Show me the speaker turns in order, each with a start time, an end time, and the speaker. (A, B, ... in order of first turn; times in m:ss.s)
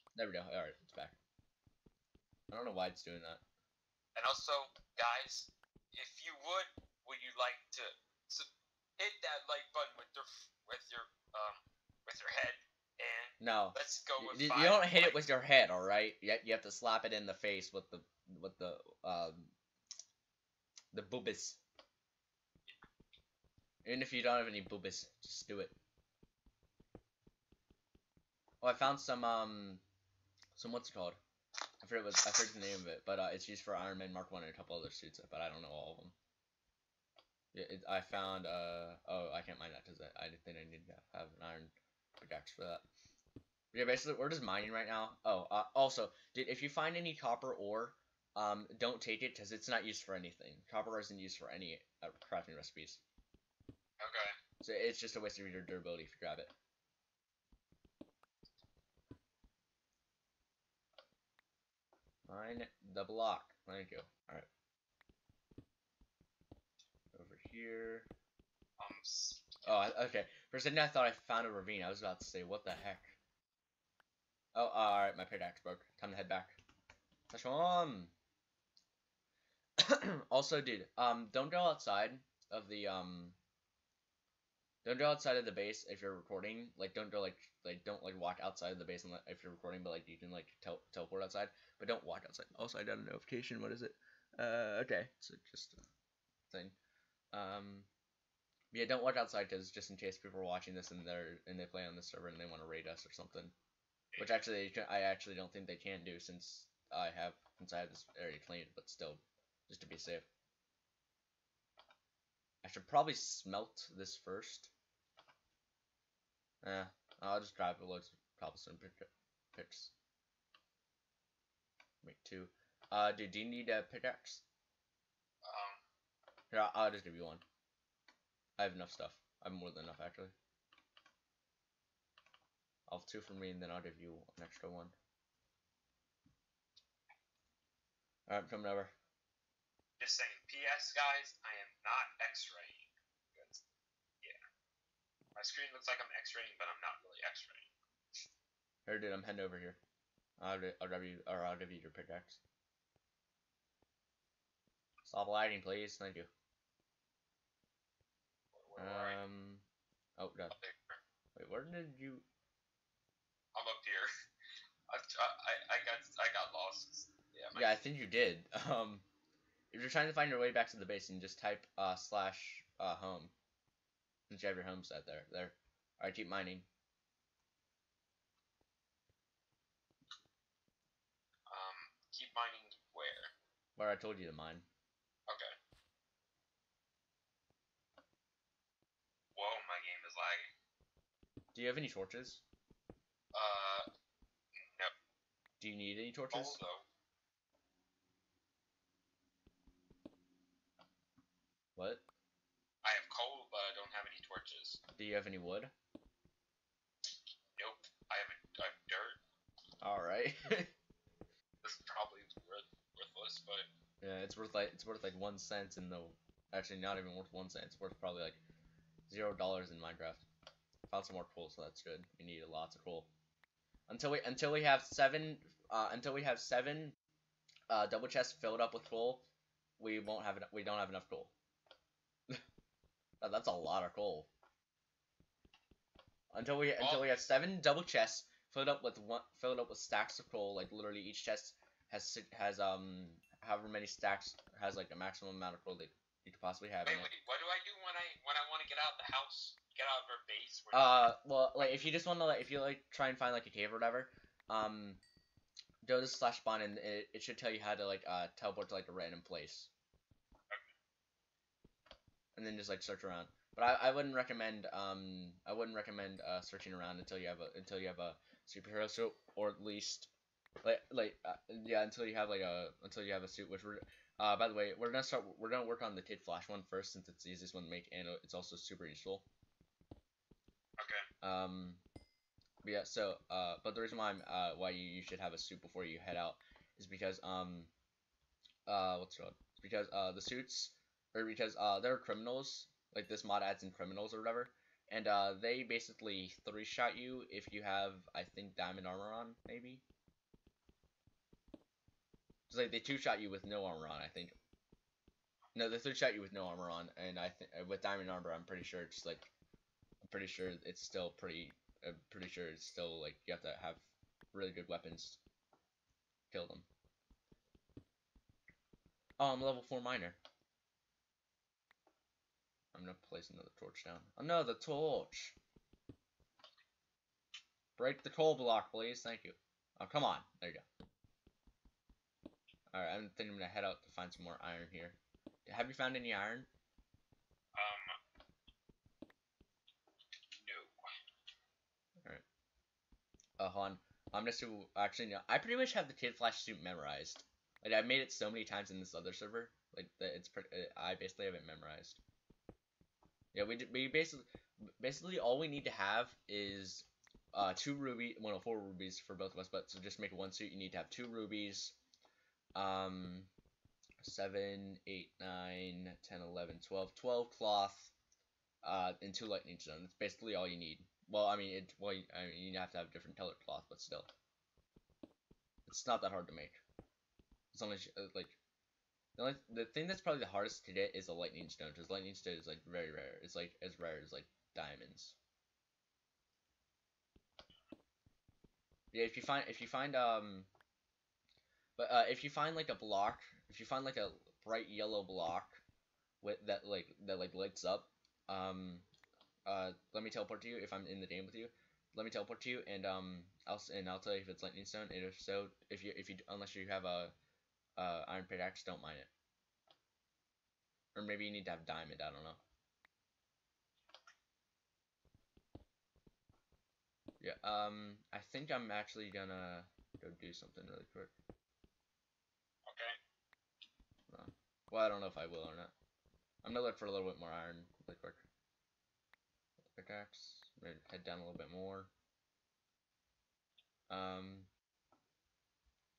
0:00.2-0:01.2 A
0:02.5-0:03.4 A
0:04.2-0:15.2 B
0:13.4-0:19.5 A
0:20.9-0:21.6 A
0:23.8-0:25.8 A
0:28.6-0:29.8 A
0:30.6-0:31.2 A
0:31.8-0:36.2 A
0:37.5-0:42.8 A
0:43.7-0:53.0 A
0:54.0-0:54.3 B
0:54.6-0:56.5 A
1:02.3-1:04.5 A
1:07.1-1:08.1 A
1:08.8-1:09.6 B
1:09.6-1:13.2 A
1:14.6-1:16.6 A
1:17.3-1:18.1 A
1:19.8-1:23.4 A
1:24.8-1:35.8 A
1:36.5-1:36.8 A
1:37.3-1:37.9 A
1:38.7-1:43.5 A
1:44.2-1:50.3 A
1:52.6-1:54.7 A
1:56.6-1:59.9 A
2:02.0-2:04.4 A
2:05.5-2:05.8 B
2:06.5-2:07.4 A
2:08.6-2:10.3 A
2:12.9-2:15.0 A
2:18.3-2:18.9 A
2:20.0-2:23.6 B
2:25.4-2:27.7 B
2:28.9-2:29.8 A
2:30.4-2:32.4 A
2:35.1-2:36.3 A
2:38.5-2:39.2 B
2:38.8-2:39.6 A
2:40.2-2:40.6 A
2:40.5-2:41.0 B
2:41.4-2:42.2 A
2:43.6-2:44.1 B
2:44.9-2:47.8 B
2:47.5-2:49.0 A
2:49.7-2:53.3 A
2:54.3-2:56.7 A
3:01.5-3:03.3 B
3:03.8-3:04.7 A
3:09.4-3:10.5 B
3:11.5-3:12.4 A
3:13.4-3:13.9 B
3:14.6-3:14.9 B
3:15.6-3:16.6 A
3:16.3-3:16.8 B
3:21.8-3:22.0 A
3:22.8-3:24.8 B
3:25.0-3:25.7 A
3:27.6-3:29.2 B
3:29.8-3:30.7 A
3:31.6-3:33.7 B
3:34.0-3:38.4 A
3:39.1-3:40.2 A
3:40.9-3:43.1 A
3:43.9-3:47.0 A
3:47.7-3:49.2 A
3:49.8-3:51.3 A
3:53.2-3:54.3 A
3:56.3-4:07.1 A
3:56.8-3:57.1 B
4:06.8-4:11.1 B
4:10.7-4:15.0 A
4:15.8-4:19.7 A
4:22.4-4:30.1 A
4:30.6-4:39.3 A
4:40.8-4:41.1 B
4:41.2-4:41.8 A
4:42.6-4:47.7 A
4:48.7-4:59.8 A
5:02.5-5:04.4 A
5:05.6-5:09.3 A
5:10.0-5:15.2 A
5:16.3-5:16.7 A
5:19.2-5:20.2 A
5:22.7-5:25.4 A
5:27.8-5:30.6 A
5:32.7-5:36.5 A
5:37.6-5:38.0 B
5:40.4-5:40.8 B
5:43.4-5:52.0 A
5:53.3-6:01.8 A
6:02.6-6:03.3 A
6:04.0-6:07.9 A
6:08.6-6:14.1 A
6:15.7-6:16.6 A
6:17.5-6:18.4 A
6:19.2-6:25.2 A
6:28.9-6:30.5 A
6:31.8-6:35.6 A
6:36.2-6:38.9 A
6:39.4-6:47.1 A
6:47.8-6:49.1 A
6:51.0-6:52.4 A
6:57.2-7:01.1 A
7:02.7-7:03.0 B
7:04.1-7:05.7 A
7:06.4-7:08.2 A
7:09.8-7:11.9 A
7:13.9-7:14.5 A